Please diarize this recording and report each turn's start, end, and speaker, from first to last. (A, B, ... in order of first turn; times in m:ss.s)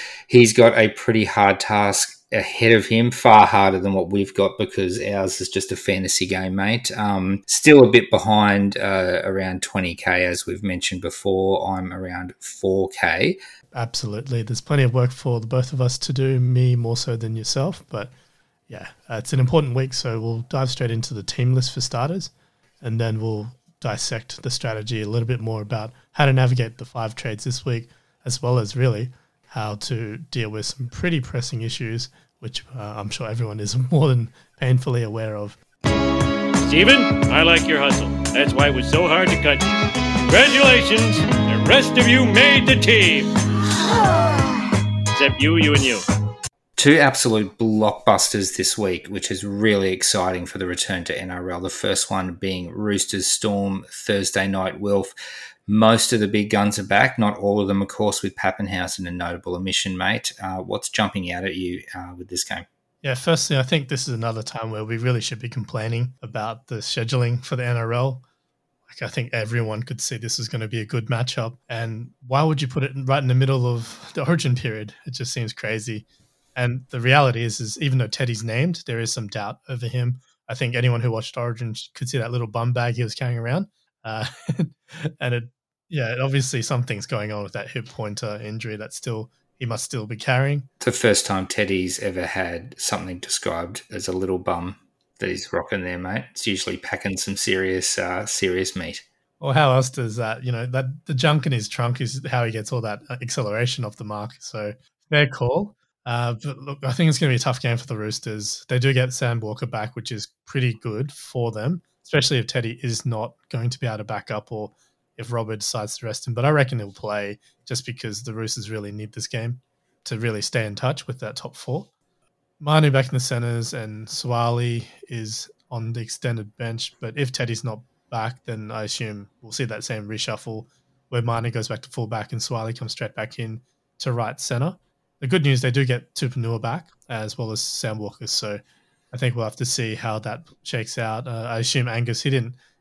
0:00.3-0:13.4 A
0:13.7-0:18.1 B
0:18.7-0:22.3 B
0:22.8-0:35.6 B
0:36.7-0:39.6 C
0:40.3-0:43.3 C
0:45.1-0:46.1 C
0:46.8-0:55.1 A
0:55.7-1:02.7 A
1:03.0-1:08.2 B
1:08.9-1:16.0 B
1:16.6-1:30.7 B
1:30.8-1:39.0 A
1:39.4-2:01.9 B
2:02.6-2:18.6 B
2:19.1-2:22.6 B